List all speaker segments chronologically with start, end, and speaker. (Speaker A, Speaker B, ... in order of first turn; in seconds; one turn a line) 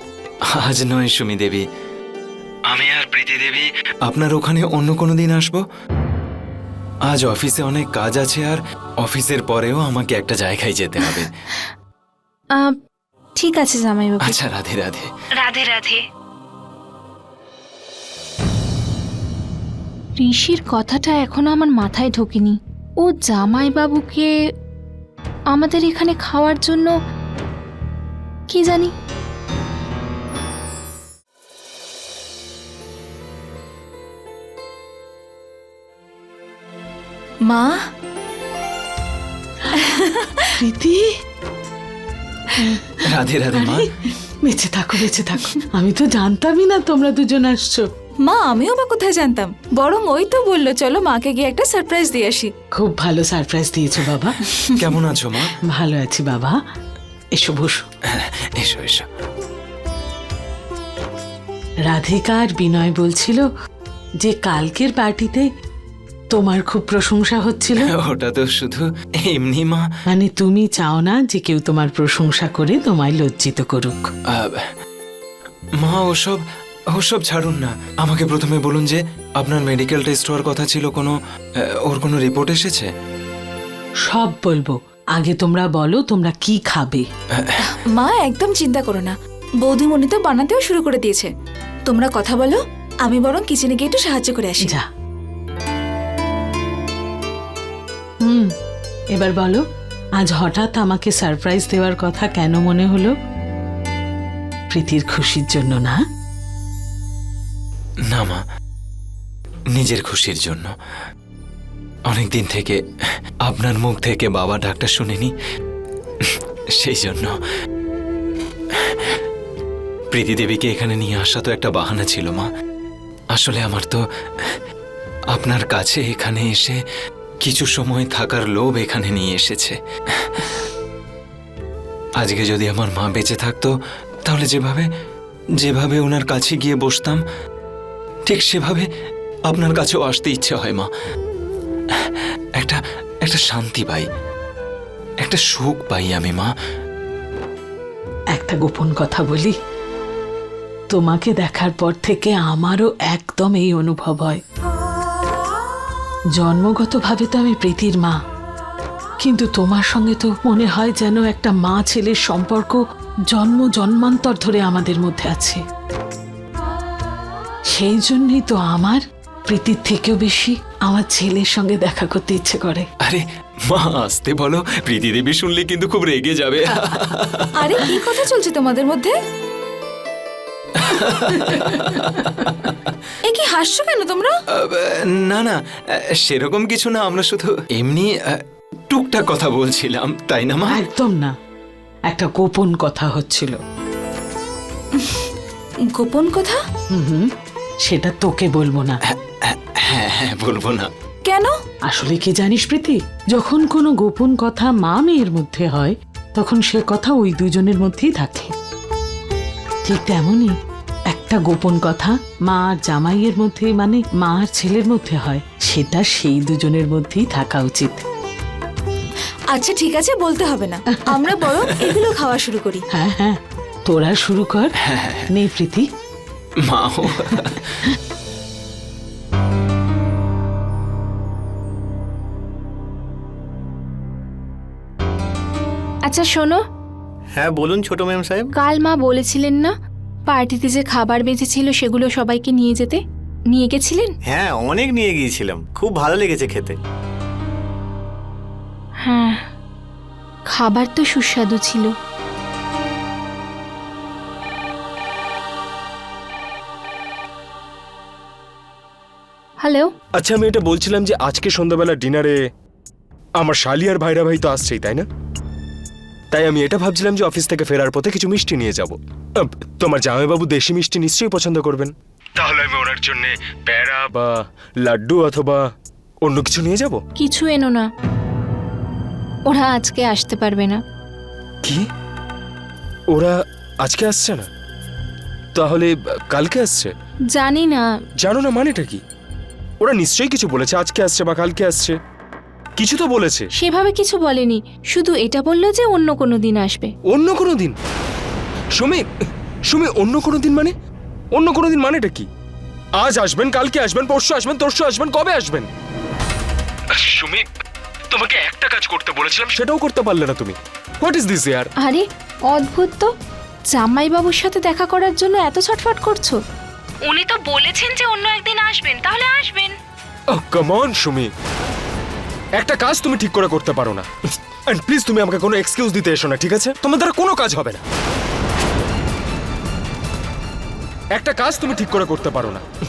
Speaker A: 0.5-1.6
Speaker A: 2.7-5.6
Speaker A: 7.1-11.3
Speaker B: 13.4-14.4
Speaker A: 14.2-15.1
Speaker B: 15.4-16.0
Speaker B: 20.2-24.3
Speaker B: 25.5-26.9
Speaker B: 28.5-28.9
Speaker C: 37.4-37.8
Speaker C: 39.8-40.5
Speaker D: 40.6-41.1
Speaker D: 42.6-43.9
Speaker A: 43.0-43.9
Speaker D: 44.4-47.9
Speaker C: 48.2-52.5
Speaker D: 52.8-54.4
Speaker A: 54.8-55.5
Speaker D: 55.7-56.5
Speaker D: 57.4-57.8
Speaker A: 58.1-59.0
Speaker D: 61.9-63.5
Speaker D: 64.2-65.5
Speaker D: 66.3-67.9
Speaker A: 67.8-69.8
Speaker D: 70.1-74.0
Speaker A: 74.3-74.7
Speaker A: 75.8-76.4
Speaker A: 76.9-81.1
Speaker A: 81.7-82.9
Speaker D: 84.0-87.0
Speaker C: 87.7-91.3
Speaker C: 91.8-94.7
Speaker D: 98.2-98.5
Speaker D: 99.1-99.6
Speaker D: 100.2-103.1
Speaker D: 104.7-106.0
Speaker A: 108.1-108.4
Speaker A: 109.7-110.7
Speaker A: 112.1-112.8
Speaker A: 113.5-115.3
Speaker A: 116.2-117.3
Speaker A: 120.1-122.5
Speaker A: 123.3-124.6
Speaker A: 125.3-126.8
Speaker A: 127.4-130.6
Speaker A: 132.2-133.7
Speaker A: 134.2-134.8
Speaker A: 135.6-137.2
Speaker A: 138.3-138.9
Speaker A: 139.5-140.9
Speaker A: 142.6-144.1
Speaker A: 145.2-146.5
Speaker D: 148.3-149.5
Speaker D: 150.9-154.4
Speaker D: 156.4-158.2
Speaker D: 159.2-165.6
Speaker D: 167.7-172.9
Speaker A: 173.0-178.2
Speaker D: 176.7-177.0
Speaker C: 177.6-179.2
Speaker A: 180.8-182.7
Speaker C: 183.2-184.3
Speaker A: 184.6-185.6
Speaker A: 186.2-190.8
Speaker D: 190.7-191.3
Speaker D: 192.1-193.6
Speaker C: 194.9-195.2
Speaker C: 195.9-196.6
Speaker D: 196.9-197.3
Speaker D: 197.8-199.0
Speaker A: 199.1-200.9
Speaker C: 201.2-201.5
Speaker D: 201.9-208.5
Speaker D: 209.8-210.5
Speaker D: 211.1-218.0
Speaker C: 219.5-222.8
Speaker D: 220.9-222.0
Speaker D: 222.9-224.7
Speaker A: 224.8-225.3
Speaker D: 225.3-225.8
Speaker A: 226.7-227.6
Speaker D: 227.2-227.5
Speaker B: 236.1-236.6
Speaker E: 237.3-238.5
Speaker B: 238.6-239.7
Speaker B: 240.3-243.0
Speaker B: 243.5-244.1
Speaker E: 244.3-246.8
Speaker B: 249.0-249.4
Speaker B: 250.5-251.9
Speaker B: 259.6-259.9
Speaker F: 260.2-262.4
Speaker F: 263.4-265.0
Speaker F: 266.3-274.3
Speaker F: 274.8-275.6
Speaker F: 276.2-277.0
Speaker B: 277.2-277.9
Speaker B: 279.5-280.8
Speaker F: 283.1-284.5
Speaker F: 285.5-286.9
Speaker B: 287.3-287.8
Speaker F: 288.2-289.0
Speaker F: 289.8-292.0
Speaker F: 292.8-293.5
Speaker B: 293.6-296.9
Speaker F: 297.1-297.7
Speaker F: 298.8-299.0
Speaker F: 299.7-300.7
Speaker F: 301.3-302.3
Speaker F: 303.0-305.7
Speaker F: 307.0-307.4
Speaker F: 308.1-311.7
Speaker B: 311.8-313.1
Speaker B: 313.7-316.4
Speaker B: 317.0-319.7
Speaker F: 320.3-321.3
Speaker F: 322.6-324.1
Speaker F: 324.7-327.8
Speaker F: 331.1-332.6